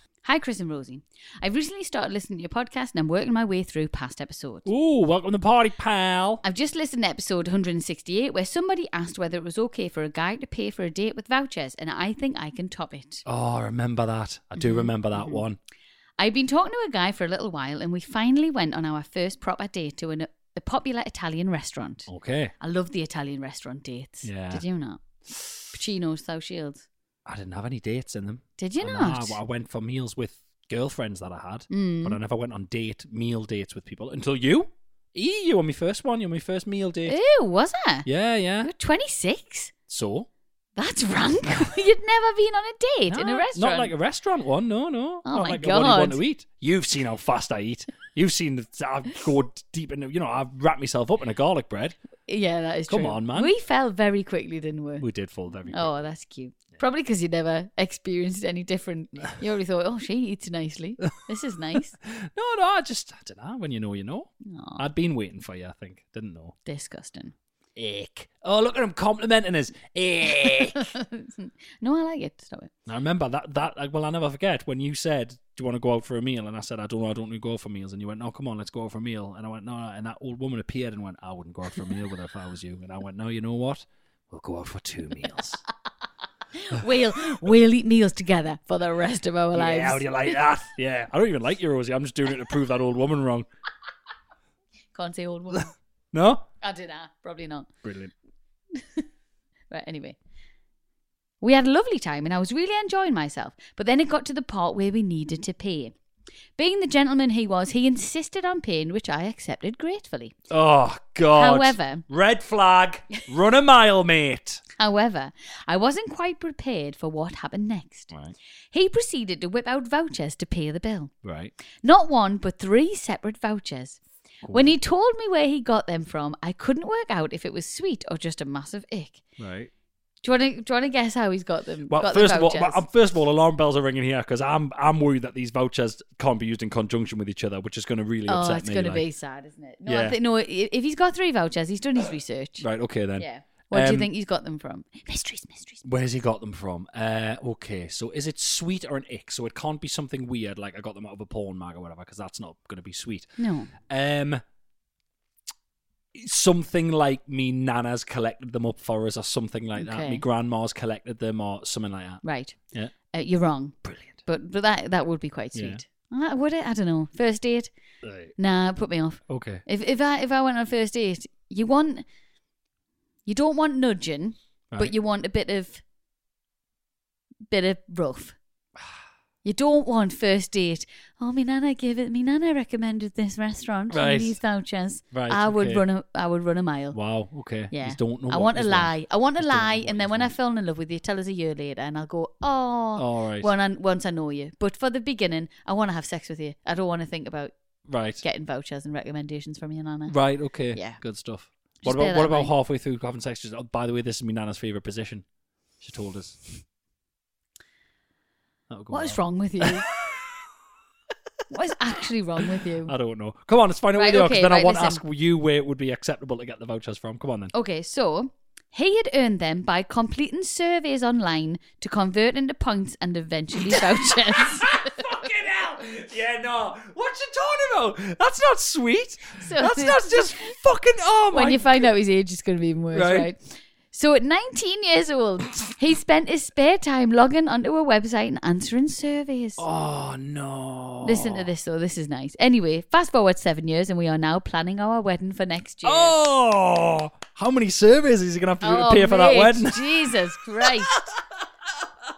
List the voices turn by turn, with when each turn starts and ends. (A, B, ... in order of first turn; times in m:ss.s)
0:00.2-0:04.7 A
0:04.6-0:06.4 B
0:06.4-0:13.2 A
0:13.2-0:15.6 B
0:14.6-0:15.4 A
0:16.2-0:22.1 A
0:22.1-0:22.5 B
0:22.6-0:25.0 A
0:24.2-0:24.6 B
0:25.3-0:25.6 B
0:25.7-0:26.9 A
0:27.2-0:37.2 B
0:28.6-0:29.4 A
0:31.7-0:32.2 A
0:37.1-0:38.1 A
0:38.0-0:38.7 B
0:38.6-0:39.7 A
0:39.9-0:40.3 B
0:40.8-0:43.9 A
0:43.1-0:52.0 B
0:45.2-0:46.2 A
0:52.3-0:55.0 A
0:52.9-0:53.5 B
0:55.0-0:55.9 B
0:55.7-1:01.9 A
1:02.0-1:06.6 B
1:04.4-1:04.8 A
1:06.6-1:07.3 A
1:07.8-1:10.9 B
1:10.4-1:12.7 A
1:12.8-1:25.6 B
1:26.5-1:30.1 A
1:26.7-1:27.1 B
1:29.5-1:33.5 B
1:34.9-1:35.7 A
1:35.5-1:36.4 B
1:36.6-1:37.7 A
1:37.8-1:38.1 B
1:38.7-1:39.0 A
1:39.7-1:40.2 A
1:41.4-1:45.9 A
1:46.6-1:50.3 A
1:50.5-1:54.6 B
1:51.3-1:52.0 A
1:54.8-1:58.1 A
1:58.1-1:58.3 B
1:58.7-2:01.1 A
2:01.2-2:01.5 B
2:01.8-2:04.0 A
2:04.4-2:04.8 B
2:04.5-2:09.2 A
2:09.4-2:09.7 B
2:10.2-2:12.8 A
2:11.9-2:19.0 B
2:18.3-2:22.6 A
2:19.8-2:20.2 B
2:22.6-2:24.1 B
2:23.2-2:25.8 A
2:25.8-2:34.4 B
2:33.4-2:33.7 A
2:36.1-2:42.9 B
2:39.8-2:40.2 A
2:42.2-2:42.6 A
2:43.1-2:47.7 A
2:43.8-2:44.2 B
2:45.5-2:45.8 B
2:48.0-2:48.3 B
2:48.4-2:52.0 A
2:49.3-2:49.6 B
2:53.2-2:55.8 A
2:57.5-2:58.4 A
2:59.4-3:07.0 A
3:03.9-3:04.4 B
3:05.1-3:05.8 B
3:06.9-3:10.3 B
3:07.7-3:17.5 A
3:13.0-3:13.5 B
3:17.9-3:18.2 B
3:18.2-3:20.2 A
3:20.1-3:25.2 B
3:20.7-3:21.0 A
3:21.8-3:22.5 A
3:25.8-3:26.4 B
3:28.7-3:30.5 B
3:28.9-3:29.9 A
3:31.5-3:32.9 A
3:32.4-3:37.5 B
3:33.9-3:35.0 A
3:37.5-3:45.1 A
3:43.6-3:51.9 B
3:49.4-3:50.5 A
3:51.3-3:59.6 A
3:52.9-3:53.3 B
3:59.6-4:01.5 B
4:01.0-4:06.1 A
4:05.8-4:11.2 B
4:08.6-4:10.9 A